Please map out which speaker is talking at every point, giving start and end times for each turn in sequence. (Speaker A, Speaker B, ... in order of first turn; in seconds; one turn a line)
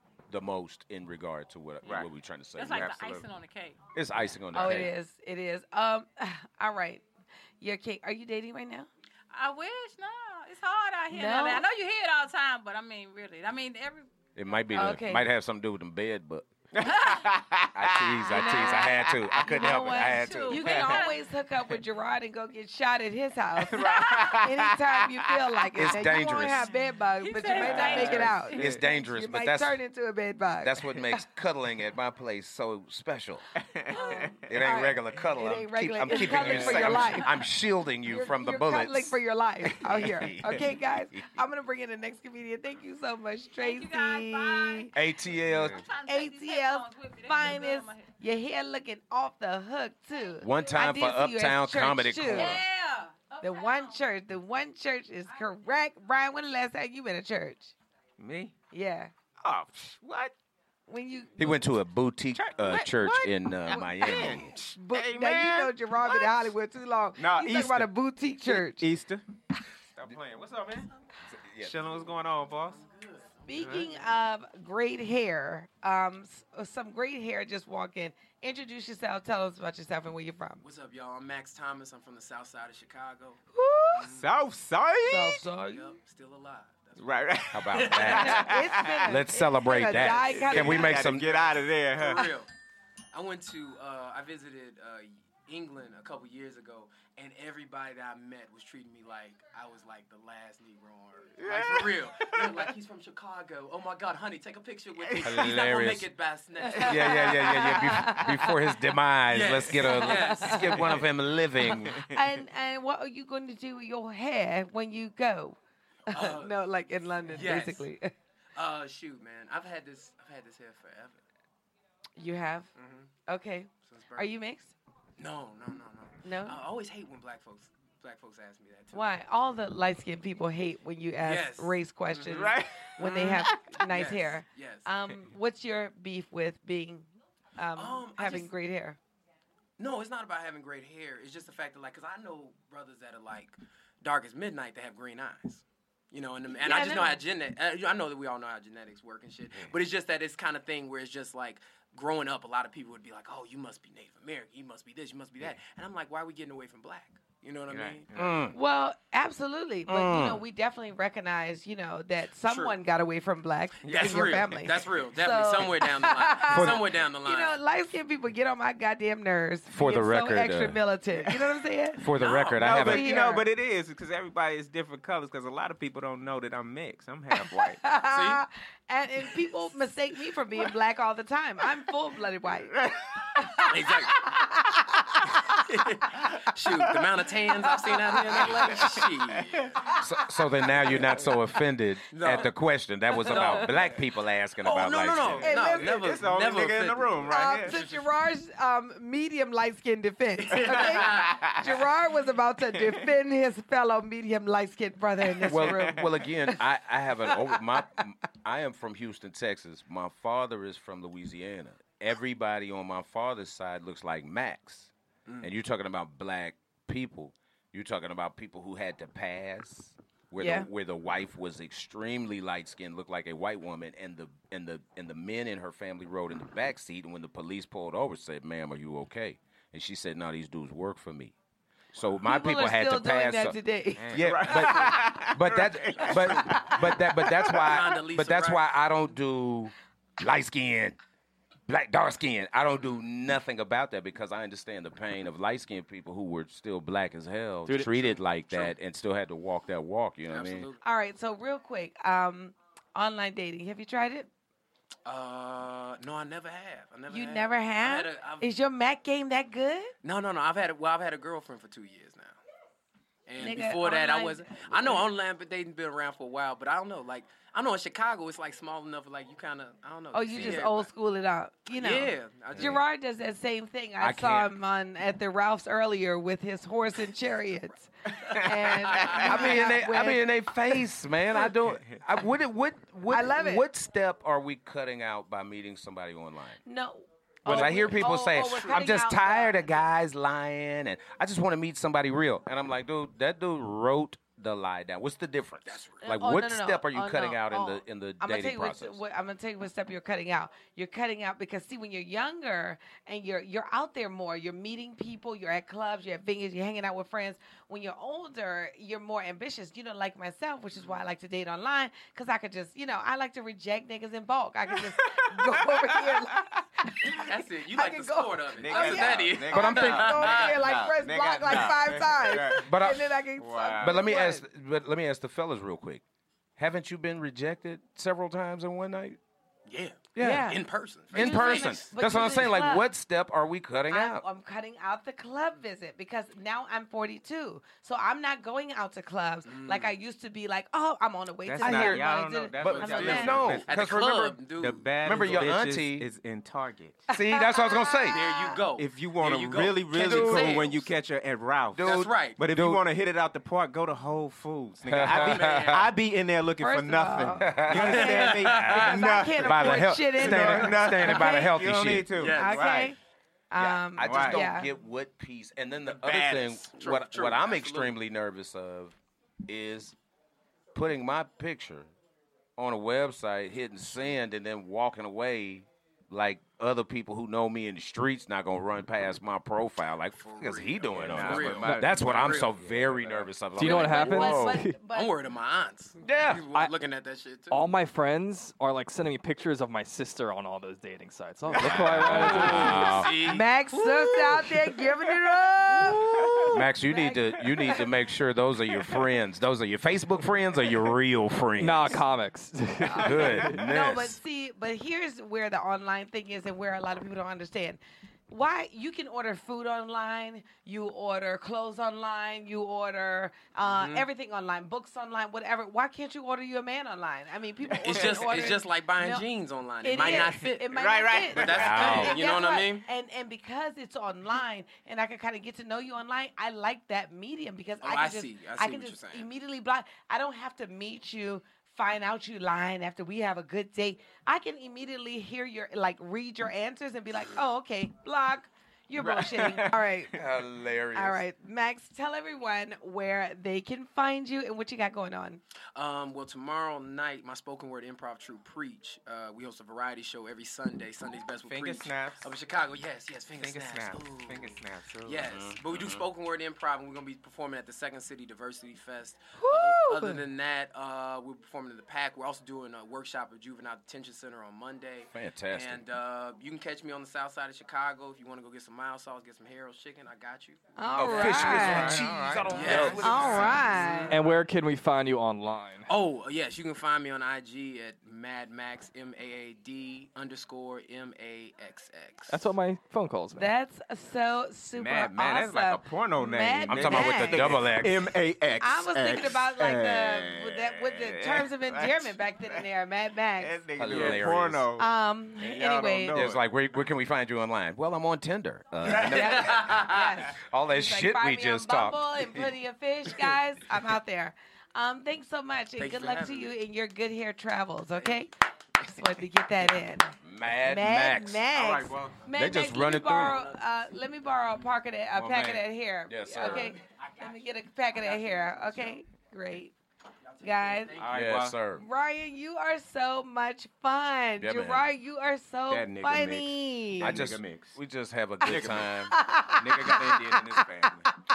Speaker A: 0.3-3.2
Speaker B: 1.8-2.1
Speaker C: 2.5-3.8
Speaker B: 2.7-3.3
Speaker A: 3.9-4.9
Speaker D: 4.5-7.0
Speaker C: 4.5-4.9
Speaker D: 7.6-8.9
Speaker C: 9.3-14.1
Speaker D: 11.1-11.6
Speaker A: 14.3-16.5
Speaker D: 14.7-15.2
Speaker B: 16.7-19.4
Speaker C: 16.8-17.2
Speaker A: 17.7-20.8
Speaker D: 18.3-31.2
Speaker C: 19.6-21.2
Speaker B: 20.4-21.0
Speaker B: 23.6-25.9
Speaker C: 23.8-24.2
Speaker A: 25.7-26.7
Speaker C: 27.1-28.9
Speaker B: 27.5-28.7
Speaker A: 28.5-29.8
Speaker A: 30.6-33.4
Speaker B: 33.6-34.5
Speaker C: 33.9-34.3
Speaker D: 33.9-37.3
Speaker A: 34.5-41.4
Speaker C: 36.1-36.4
Speaker B: 36.5-37.0
Speaker D: 38.0-44.9
Speaker C: 43.6-45.0
Speaker A: 44.9-45.8
Speaker B: 45.5-45.8
Speaker C: 45.7-48.1
Speaker D: 46.0-52.6
Speaker A: 50.4-52.6
Speaker C: 52.3-54.0
Speaker D: 53.4-57.7
Speaker B: 58.2-58.5
Speaker D: 58.7-59.1
Speaker B: 59.4-60.3
Speaker D: 60.9-61.6
Speaker A: 61.4-64.7
Speaker B: 62.3-66.5
Speaker D: 63.6-68.8
Speaker B: 67.2-67.9
Speaker B: 68.4-69.2
Speaker B: 69.9-70.9
Speaker B: 71.5-72.8
Speaker E: 72.7-73.9
Speaker D: 73.5-80.6
Speaker B: 73.5-73.9
Speaker E: 80.6-84.3
Speaker D: 83.5-84.0
Speaker B: 84.0-85.4
Speaker D: 85.0-86.0
Speaker E: 85.7-88.5
Speaker B: 87.0-89.2
Speaker A: 87.5-88.5
Speaker D: 88.0-90.9
Speaker A: 89.0-91.4
Speaker B: 89.9-92.3
Speaker E: 91.9-92.5
Speaker E: 93.1-107.7
Speaker B: 101.4-102.7
Speaker B: 105.0-105.5
Speaker A: 105.2-106.1
Speaker D: 106.7-108.5
Speaker A: 106.8-112.0
Speaker B: 106.8-108.4
Speaker E: 109.3-111.0
Speaker D: 110.2-110.6
Speaker B: 111.7-112.4
Speaker D: 112.0-115.6
Speaker D: 116.1-118.1
Speaker E: 116.1-116.6
Speaker E: 117.3-117.8
Speaker E: 118.5-121.2
Speaker D: 122.2-122.7
Speaker E: 122.8-123.1
Speaker D: 123.3-124.7
Speaker E: 123.8-124.3
Speaker E: 125.2-129.1
Speaker D: 126.2-126.6
Speaker D: 128.9-139.0
Speaker E: 131.2-133.2
Speaker B: 132.2-133.8
Speaker E: 133.9-134.9
Speaker E: 137.7-138.5
Speaker E: 139.8-158.1
Speaker D: 146.5-147.2
Speaker B: 157.7-158.4
Speaker A: 158.1-158.6
Speaker D: 158.5-172.0
Speaker A: 159.8-160.4
Speaker E: 162.4-162.8
Speaker B: 163.8-164.6
Speaker E: 163.9-167.6
Speaker A: 169.7-170.8
Speaker A: 172.0-173.1
Speaker E: 172.2-172.7
Speaker B: 172.6-177.8
Speaker D: 172.6-173.5
Speaker D: 177.8-182.8
Speaker E: 178.1-178.4
Speaker B: 182.6-183.4
Speaker D: 183.3-183.7
Speaker E: 183.7-184.2
Speaker D: 184.3-185.6
Speaker E: 185.7-189.9
Speaker B: 186.1-187.0
Speaker D: 188.1-188.7
Speaker B: 188.3-190.0
Speaker A: 190.0-195.5
Speaker E: 192.1-192.5
Speaker E: 193.2-193.7
Speaker E: 194.6-197.9
Speaker B: 195.1-197.8
Speaker D: 195.4-196.0
Speaker D: 197.3-206.1
Speaker E: 200.5-201.3
Speaker B: 200.5-201.8
Speaker B: 202.8-203.1
Speaker A: 205.4-231.3
Speaker B: 205.5-205.8
Speaker D: 220.4-220.7
Speaker A: 231.9-233.6
Speaker D: 232.2-234.2
Speaker B: 234.0-237.8
Speaker A: 234.1-241.0
Speaker E: 237.6-238.7
Speaker A: 241.7-250.7
Speaker B: 247.7-248.1
Speaker E: 247.7-248.7
Speaker E: 250.3-250.8
Speaker D: 250.8-254.3
Speaker E: 255.1-258.4
Speaker D: 257.1-259.9
Speaker E: 260.0-262.4
Speaker E: 263.3-270.9
Speaker D: 263.4-265.0
Speaker D: 270.1-280.3
Speaker A: 270.3-270.6
Speaker E: 271.7-272.8
Speaker A: 274.0-274.5
Speaker B: 278.2-279.3
Speaker A: 279.1-286.6
Speaker D: 283.1-283.6
Speaker D: 286.6-289.8
Speaker A: 287.4-299.0
Speaker E: 288.4-288.9
Speaker E: 295.6-296.1
Speaker D: 296.0-324.4
Speaker B: 314.7-316.6
Speaker E: 317.2-320.7
Speaker B: 318.6-322.7
Speaker A: 319.5-320.3
Speaker A: 322.6-323.2
Speaker B: 323.3-324.0
Speaker A: 323.8-326.0
Speaker A: 326.6-329.2
Speaker E: 329.7-331.9
Speaker A: 330.1-330.5
Speaker D: 330.2-330.6
Speaker A: 331.1-334.2
Speaker D: 331.1-332.8
Speaker D: 333.9-343.4
Speaker E: 339.4-339.9
Speaker B: 341.4-343.9
Speaker A: 341.6-342.0
Speaker A: 342.6-344.4
Speaker E: 342.6-345.5
Speaker B: 344.5-347.1
Speaker A: 345.0-346.1
Speaker A: 347.1-348.2
Speaker D: 347.1-348.6
Speaker E: 348.1-350.9
Speaker B: 348.7-362.9
Speaker A: 349.9-350.6
Speaker A: 351.7-352.8
Speaker E: 351.8-352.4
Speaker A: 354.9-355.8
Speaker E: 355.0-355.9
Speaker D: 356.6-361.5
Speaker A: 357.4-362.1
Speaker E: 357.7-359.0
Speaker E: 362.2-362.9
Speaker D: 362.3-363.0
Speaker D: 363.5-364.7
Speaker A: 363.6-369.9
Speaker B: 364.0-364.4
Speaker E: 365.9-367.9
Speaker A: 370.7-371.9
Speaker A: 372.6-384.6
Speaker E: 380.2-382.5
Speaker B: 380.9-383.8
Speaker F: 383.6-384.8
Speaker D: 383.7-385.1
Speaker E: 384.9-387.7
Speaker A: 386.0-386.4
Speaker F: 387.5-393.0
Speaker E: 391.5-394.6
Speaker B: 391.6-392.3
Speaker A: 391.6-393.1
Speaker D: 393.2-397.8
Speaker B: 395.8-396.6
Speaker A: 396.5-402.0
Speaker F: 401.6-403.6
Speaker D: 402.9-419.2
Speaker A: 403.0-404.2
Speaker E: 413.6-414.1
Speaker E: 417.7-422.8
Speaker D: 419.8-440.2
Speaker B: 419.9-422.1
Speaker A: 421.4-422.2
Speaker E: 427.8-429.3
Speaker B: 438.9-439.8
Speaker A: 440.1-441.2
Speaker D: 440.9-445.4
Speaker E: 445.7-471.3
Speaker B: 451.4-452.3
Speaker B: 453.4-455.4
Speaker A: 455.2-456.0
Speaker D: 459.4-460.2
Speaker A: 465.1-465.8
Speaker D: 470.8-472.1
Speaker A: 470.9-473.9
Speaker B: 471.0-473.6
Speaker E: 472.4-474.4
Speaker D: 473.0-474.1
Speaker F: 474.1-475.9
Speaker E: 475.9-482.4
Speaker F: 482.3-483.5
Speaker D: 483.4-487.5
Speaker B: 484.8-492.7
Speaker A: 486.7-488.1
Speaker D: 488.6-494.2
Speaker B: 493.3-496.4
Speaker A: 493.8-494.7
Speaker D: 494.8-496.2
Speaker A: 496.1-502.3
Speaker E: 498.9-499.8
Speaker D: 498.9-508.3
Speaker E: 505.8-506.5
Speaker D: 508.9-510.1
Speaker A: 510.2-511.5
Speaker D: 510.6-519.7
Speaker B: 511.5-512.2
Speaker A: 512.3-513.4
Speaker B: 515.1-515.6
Speaker A: 516.1-516.8
Speaker B: 518.4-519.0
Speaker E: 520.4-521.1
Speaker D: 520.4-521.0
Speaker B: 521.0-521.6
Speaker A: 521.1-521.8
Speaker D: 521.7-527.2
Speaker A: 524.4-524.9
Speaker B: 525.7-527.8
Speaker A: 527.0-529.1
Speaker B: 528.4-531.1
Speaker D: 529.1-530.6